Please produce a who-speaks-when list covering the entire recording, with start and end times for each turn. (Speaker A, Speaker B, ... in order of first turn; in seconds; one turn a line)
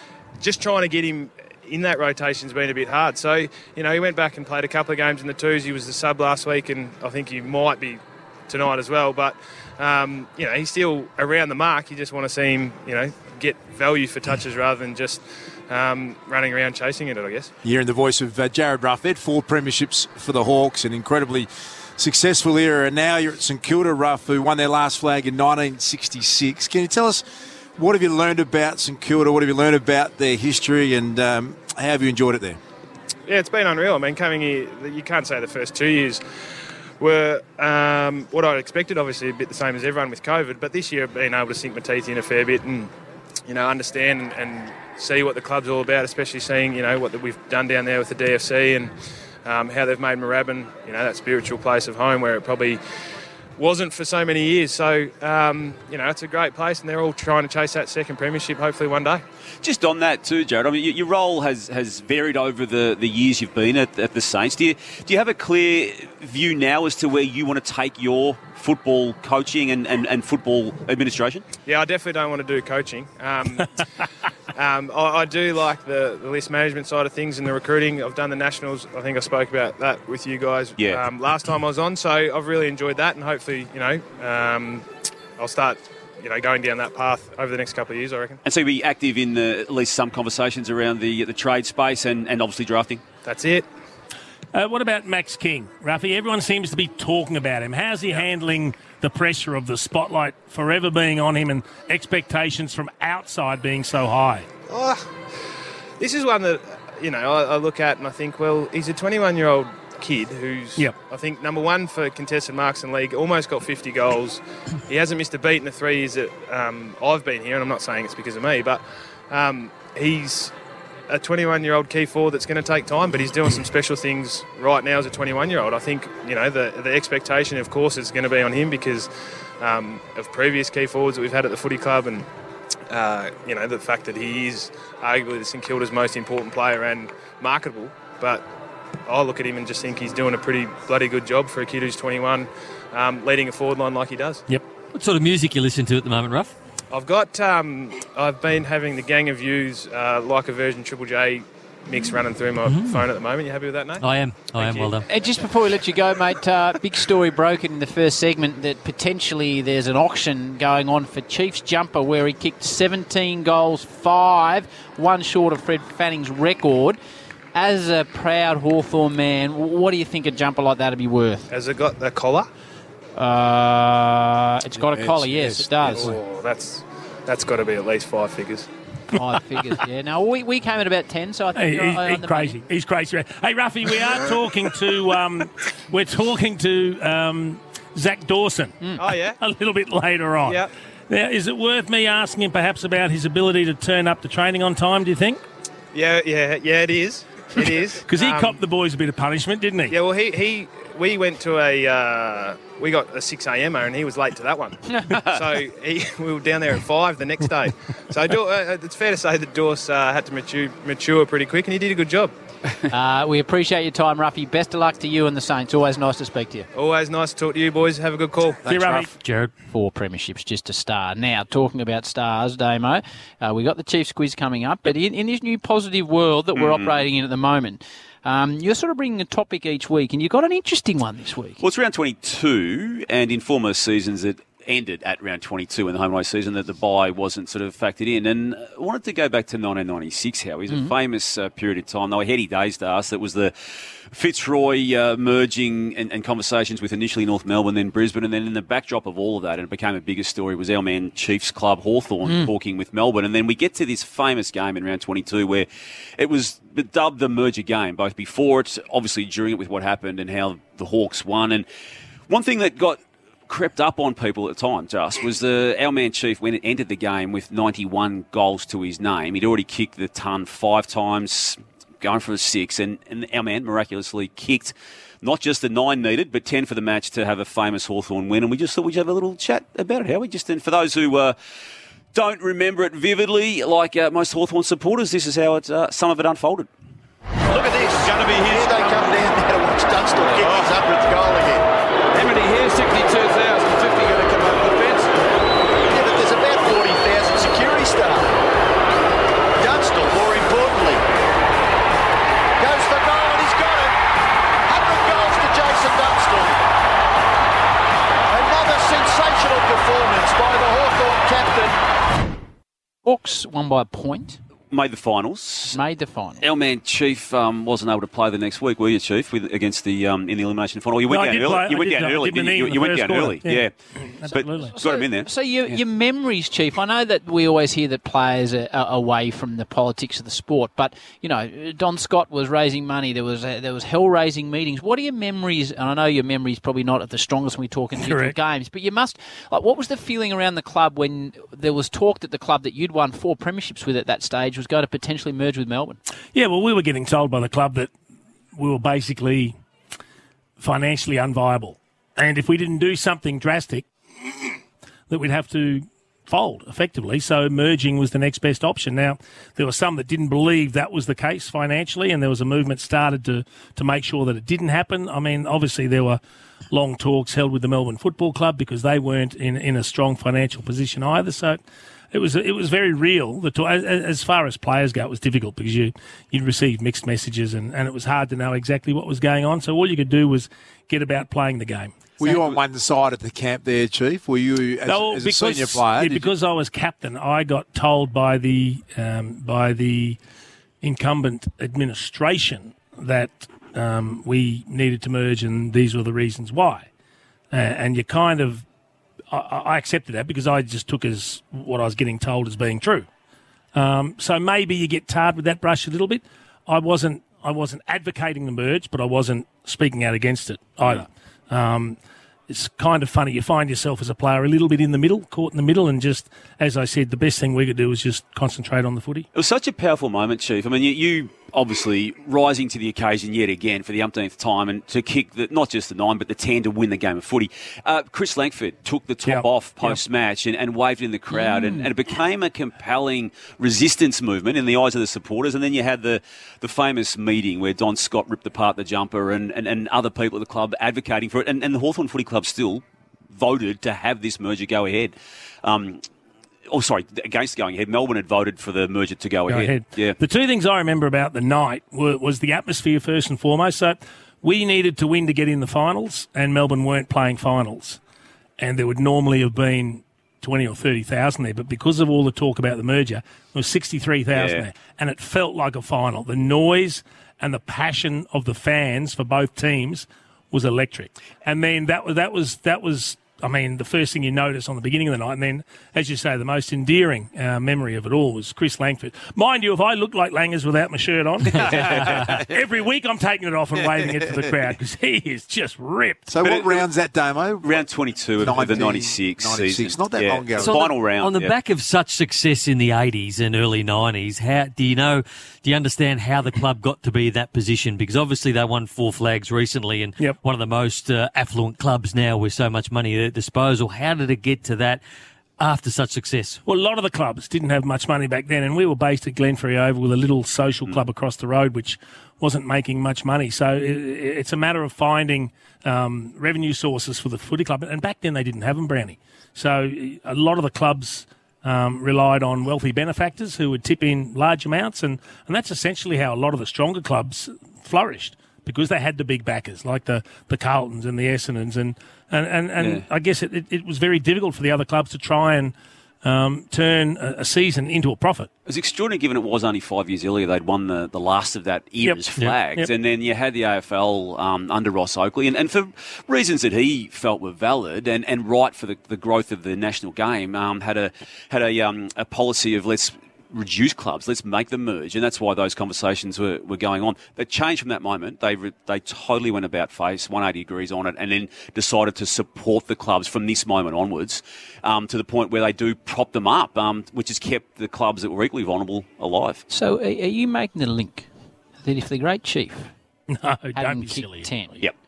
Speaker A: 0.4-17.5
Speaker B: 17.6-27.2
Speaker B: 27.8-32.6
Speaker A: 33.3-36.2
Speaker A: 37.0-42.9
Speaker A: 43.5-48.9
Speaker A: 49.4-52.8
Speaker A: 53.6-59.2
Speaker C: 59.6-71.4
Speaker A: 71.7-73.8
Speaker A: 74.5-84.8
Speaker C: 80.8-81.0
Speaker A: 85.4-88.4
Speaker C: 88.4-93.0
Speaker A: 93.2-93.7
Speaker D: 94.5-104.5
Speaker A: 104.7-105.0
Speaker A: 106.0-120.5
Speaker A: 121.1-132.3
Speaker A: 132.9-138.4
Speaker A: 139.1-144.4
Speaker E: 144.5-146.5
Speaker A: 146.9-154.0
Speaker E: 152.6-153.0
Speaker E: 154.0-155.0
Speaker F: 155.1-167.0
Speaker F: 167.5-171.4
Speaker A: 171.5-172.5
Speaker F: 173.2-176.2
Speaker B: 174.8-176.1
Speaker A: 175.8-178.7
Speaker F: 179.1-182.6
Speaker D: 181.5-195.4
Speaker A: 189.0-189.4
Speaker A: 190.4-190.7
Speaker A: 195.9-198.6
Speaker D: 197.6-200.0
Speaker A: 199.9-212.3
Speaker F: 212.9-216.7
Speaker A: 216.7-218.7
Speaker D: 218.7-219.1
Speaker E: 219.1-219.5
Speaker F: 219.6-231.6
Speaker C: 226.5-227.0
Speaker C: 231.6-243.5
Speaker C: 244.1-261.6
Speaker F: 252.2-252.5
Speaker C: 262.3-281.4
Speaker C: 282.1-286.7
Speaker G: 287.5-295.1
Speaker C: 288.0-288.7
Speaker G: 295.9-298.3
Speaker G: 299.6-301.0
Speaker G: 302.6-303.9
Speaker G: 304.7-306.6
Speaker G: 308.3-311.7
Speaker F: 313.0-314.4
Speaker C: 314.7-315.8
Speaker F: 315.7-316.4
Speaker C: 316.4-323.7
Speaker D: 321.1-324.8
Speaker C: 324.3-325.8
Speaker F: 324.6-346.0
Speaker D: 338.0-338.3
Speaker D: 346.3-347.9
Speaker D: 348.6-349.6
Speaker D: 350.6-353.9
Speaker D: 355.1-366.2
Speaker D: 366.7-371.6
Speaker D: 372.1-382.0
Speaker B: 382.2-386.3
Speaker D: 384.9-390.2
Speaker D: 390.8-396.9
Speaker D: 397.5-398.6
Speaker D: 399.3-403.1
Speaker D: 403.7-412.0
Speaker D: 412.5-419.3
Speaker C: 419.3-446.0
Speaker D: 429.2-430.0
Speaker F: 431.3-431.9
Speaker C: 446.7-450.2
Speaker D: 449.5-458.0
Speaker D: 458.6-486.3
Speaker C: 464.3-464.6
Speaker B: 486.3-487.8
Speaker C: 486.4-486.8
Speaker C: 487.6-491.5
Speaker B: 488.4-490.8
Speaker E: 490.6-505.0
Speaker E: 505.6-506.6
Speaker D: 506.6-538.5
Speaker C: 532.8-533.0
Speaker C: 538.6-569.6
Speaker F: 569.7-571.3
Speaker F: 571.8-572.9
Speaker D: 573.3-574.5
Speaker F: 573.7-574.8